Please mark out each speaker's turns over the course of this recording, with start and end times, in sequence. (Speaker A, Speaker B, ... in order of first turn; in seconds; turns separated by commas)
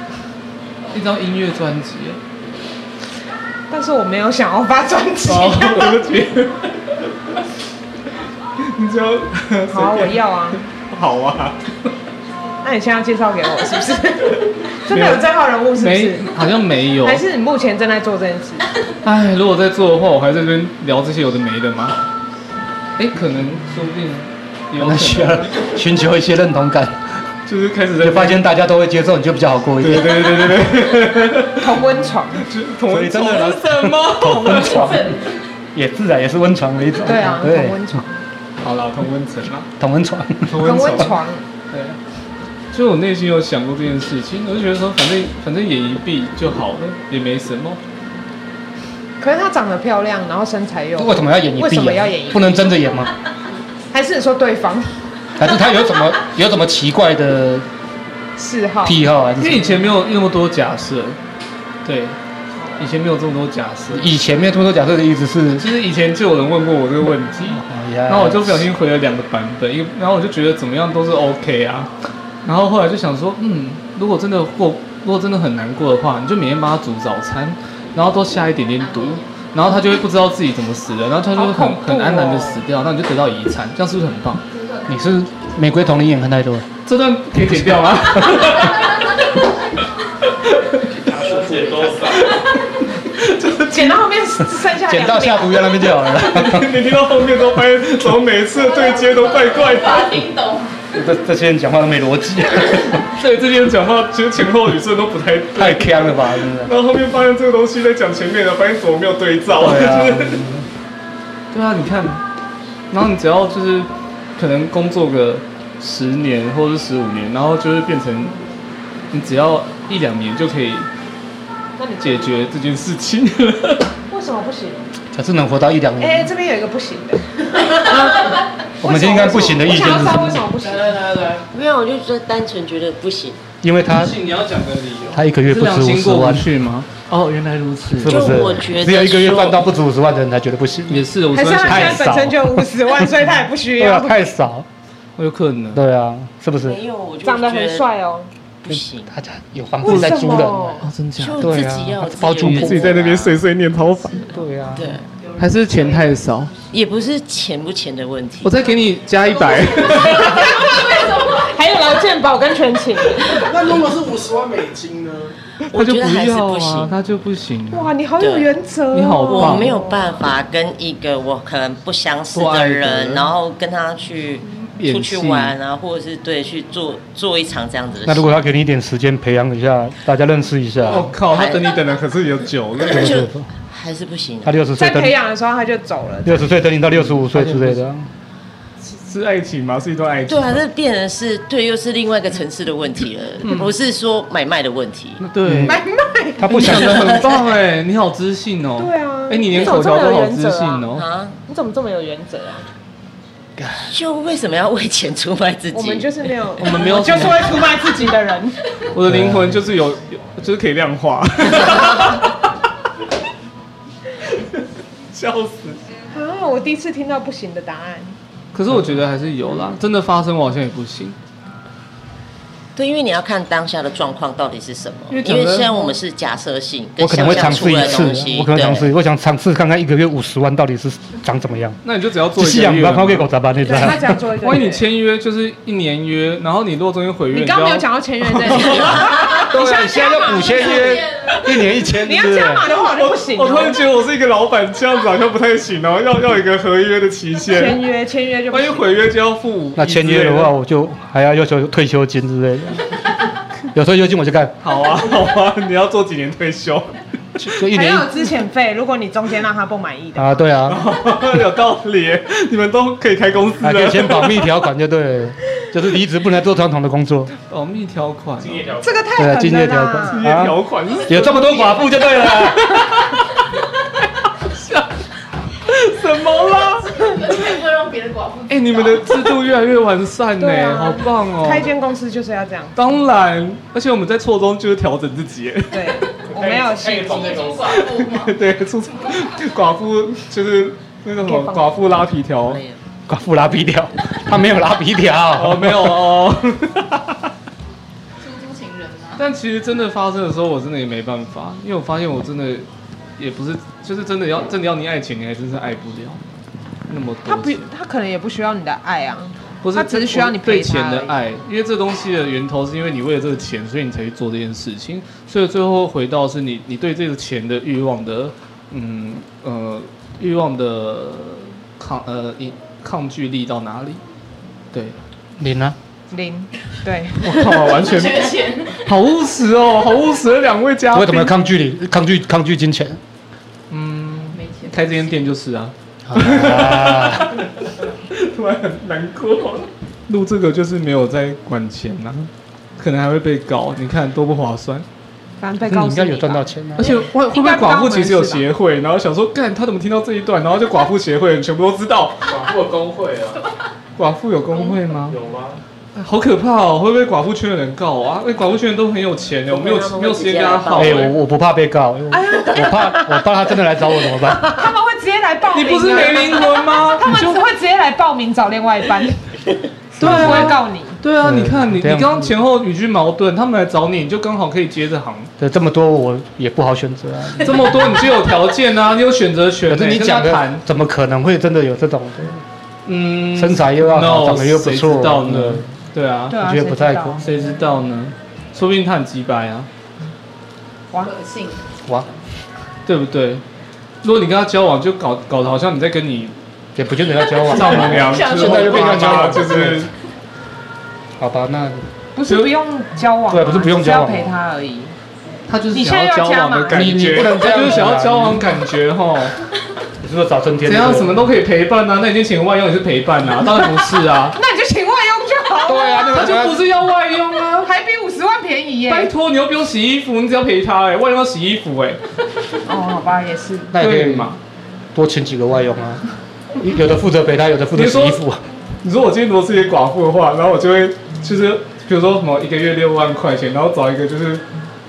Speaker A: 0.9-2.2, Speaker B: 3.7-6.0, Speaker A: 5.2-6.7, Speaker A: 8.6-11.6, Speaker B: 9.7-10.6, Speaker B: 12.6-16.3, Speaker A: 14.9-17.2, Speaker B: 17.0-18.7, Speaker A: 19.0-21.9, Speaker A: 23.0-25.5, Speaker C: 24.8-27.0, Speaker A: 27.4-28.4, Speaker C: 28.0-30.4, Speaker A: 29.8-31.8, Speaker B: 31.6-32.4, Speaker A: 32.3-35.0, Speaker C: 32.9-35.1, Speaker C: 35.7-37.8, Speaker B: 37.0-38.2, Speaker A: 38.6-39.7, Speaker C: 39.8-41.1, Speaker A: 40.5-41.2, Speaker B: 40.6-41.4, Speaker A: 42.7-47.8, Speaker B: 49.2-52.6, Speaker C: 51.0-53.1, Speaker B: 53.9-55.0, Speaker C: 55.4-57.6, Speaker B: 58.4-59.0, Speaker C: 58.8-59.9, Speaker A: 59.4-61.2, Speaker A: 61.8-62.2, Speaker A: 62.8-64.1, Speaker C: 63.9-65.7, Speaker A: 65.6-71.9, Speaker C: 67.5-68.7, Speaker A: 72.4-84.4, Speaker D: 78.8-79.3, Speaker B: 81.3-82.6, Speaker C: 84.9-86.7, Speaker A: 86.8-89.1, Speaker C: 87.4-88.5, Speaker D: 88.5-89.4, Speaker A: 90.4-91.1, Speaker E: 91.0-92.4, Speaker F: 91.2-92.0, Speaker A: 92.1-94.0, Speaker B: 93.7-95.6, Speaker C: 94.7-96.7, Speaker A: 96.1-100.3, Speaker D: 98.5-100.7, Speaker C: 100.9-103.0, Speaker A: 103.2-110.4, Speaker C: 105.5-106.7, Speaker C: 109.6-110.7, Speaker A: 111.5-112.2, Speaker A: 112.9-118.3, Speaker A: 119.1-120.9, Speaker B: 121.8-122.3, Speaker A: 122.0-123.9, Speaker B: 124.1-124.9, Speaker C: 125.1-126.3, Speaker B: 126.0-127.3, Speaker B: 127.8-128.1, Speaker C: 128.8-130.4, Speaker B: 128.8-131.0, Speaker D: 130.8-131.4, Speaker G: 131.5-133.4, Speaker C: 133.6-134.2, Speaker A: 133.9-138.3, Speaker C: 135.1-136.5, Speaker C: 138.0-143.1, Speaker G: 138.0-139.6, Speaker A: 140.9-142.2, Speaker B: 141.3-144.2, Speaker C: 143.8-144.7, Speaker A: 145.2-145.8, Speaker C: 145.7-146.8, Speaker G: 146.6-147.9, Speaker B: 147.2-148.3, Speaker G: 148.6-149.1, Speaker C: 148.7-150.7, Speaker B: 149.8-150.9, Speaker A: 149.9-154.3, Speaker G: 151.2-153.4, Speaker C: 151.4-152.8, Speaker C: 154.3-154.9, Speaker G: 154.7-155.1, Speaker D: 155.2-156.1, Speaker A: 155.4-156.5, Speaker G: 156.7-158.7, Speaker A: 158.4-160.6, Speaker D: 159.3-162.0, Speaker B: 160.1-163.4, Speaker F: 163.2-165.3, Speaker G: 165.7-166.9, Speaker A: 165.7-167.9, Speaker B: 167.7-170.1, Speaker G: 168.2-168.5, Speaker A: 168.9-169.7, Speaker G: 169.3-178.3, Speaker A: 172.3-173.3, Speaker A: 174.7-175.6, Speaker C: 178.0-181.1, Speaker A: 180.8-183.2, Speaker G: 181.2-181.7, Speaker G: 182.8-184.5, Speaker C: 182.9-183.5, Speaker C: 184.4-185.1, Speaker B: 184.8-186.6, Speaker C: 186.2-188.1, Speaker A: 186.9-187.8, Speaker A: 188.8-190.6, Speaker G: 190.3-195.2, Speaker A: 193.4-193.7, Speaker A: 195.2-195.8, Speaker C: 195.4-195.7, Speaker B: 195.7-196.8, Speaker C: 196.4-197.2, Speaker A: 196.4-201.0, Speaker B: 198.8-200.9, Speaker G: 200.9-201.3, Speaker B: 201.4-202.7, Speaker G: 203.9-206.2, Speaker B: 205.7-208.6, Speaker A: 206.6-207.6, Speaker A: 208.9-212.4, Speaker C: 209.0-209.6, Speaker A: 214.3-214.6, Speaker A: 215.1-215.8, Speaker B: 216.1-218.2, Speaker A: 218.5-221.2, Speaker G: 222.8-228.9, Speaker A: 225.1-225.9, Speaker C: 227.0-231.8, Speaker A: 227.2-228.2, Speaker A: 231.8-239.9, Speaker C: 232.3-234.0, Speaker B: 233.6-234.8, Speaker B: 237.3-241.0, Speaker C: 239.4-242.7, Speaker D: 240.3-241.3, Speaker B: 242.0-243.8, Speaker A: 242.7-247.8, Speaker B: 247.5-248.9, Speaker A: 248.5-250.5, Speaker C: 249.8-252.9, Speaker C: 253.7-254.6, Speaker A: 254.6-257.4, Speaker C: 257.4-258.1, Speaker B: 257.7-260.4, Speaker C: 260.1-260.8, Speaker A: 260.7-264.5, Speaker C: 263.6-267.3, Speaker A: 267.4-268.7, Speaker E: 268.4-269.1, Speaker B: 268.8-270.2, Speaker C: 269.1-272.9, Speaker A: 270.1-273.0, Speaker A: 274.4-274.9, Speaker A: 275.6-277.4, Speaker D: 276.6-279.4, Speaker A: 278.5-281.7, Speaker B: 280.4-282.8, Speaker A: 282.7-286.2, Speaker B: 285.7-287.3, Speaker E: 286.3-287.8, Speaker D: 287.0-288.4, Speaker A: 287.7-292.6, Speaker B: 291.2-291.7, Speaker G: 292.4-292.8, Speaker C: 293.1-296.0, Speaker A: 295.4-297.1, Speaker D: 298.2-299.2, Speaker A: 299.2-302.6, Speaker A: 303.2-306.2, Speaker A: 306.9-307.7, Speaker B: 307.3-311.2, Speaker A: 309.6-324.0, Speaker A: 324.7-325.0, Speaker C: 325.4-325.8, Speaker B: 326.1-327.4, Speaker A: 327.2-331.3, Speaker D: 327.7-328.8, Speaker C: 330.9-333.0, Speaker A: 333.7-344.9, Speaker D: 334.3-335.1, Speaker C: 336.1-337.3, Speaker B: 345.4-348.4, Speaker C: 345.6-346.9, Speaker A: 346.8-352.4, Speaker E: 352.2-353.4, Speaker A: 354.0-355.2, Speaker E: 355.0-355.6, Speaker A: 355.9-361.1, Speaker G: 359.5-361.2, Speaker C: 360.8-364.5, Speaker B: 362.1-363.2, Speaker B: 364.3-369.3, Speaker A: 365.5-367.4, Speaker C: 370.0-370.6, Speaker B: 370.0-371.0, Speaker A: 370.0-375.3, Speaker C: 371.2-372.3, Speaker C: 375.4-377.9, Speaker A: 377.4-380.6, Speaker C: 379.7-382.4, Speaker A: 382.9-386.4, Speaker C: 383.3-385.7, Speaker B: 386.3-387.3, Speaker C: 386.3-387.2, Speaker A: 387.2-389.7, Speaker D: 391.0-391.6, Speaker A: 392.9-393.4, Speaker A: 394.0-396.3, Speaker C: 396.8-399.9, Speaker A: 397.4-399.9, Speaker D: 397.7-399.6, Speaker C: 401.2-401.9, Speaker B: 402.1-404.9, Speaker A: 402.2-402.5, Speaker C: 403.3-404.3, Speaker A: 405.5-409.3, Speaker B: 405.7-407.5, Speaker C: 406.7-408.4, Speaker C: 410.0-411.2, Speaker A: 410.6-414.4, Speaker B: 413.6-416.4, Speaker C: 415.6-416.6, Speaker A: 416.1-417.7, Speaker B: 417.6-419.1, Speaker A: 418.9-422.0, Speaker B: 422.6-423.7, Speaker C: 423.7-424.3, Speaker A: 423.8-424.4, Speaker C: 424.9-426.0, Speaker C: 426.6-428.4, Speaker A: 427.7-428.2, Speaker A: 428.8-434.4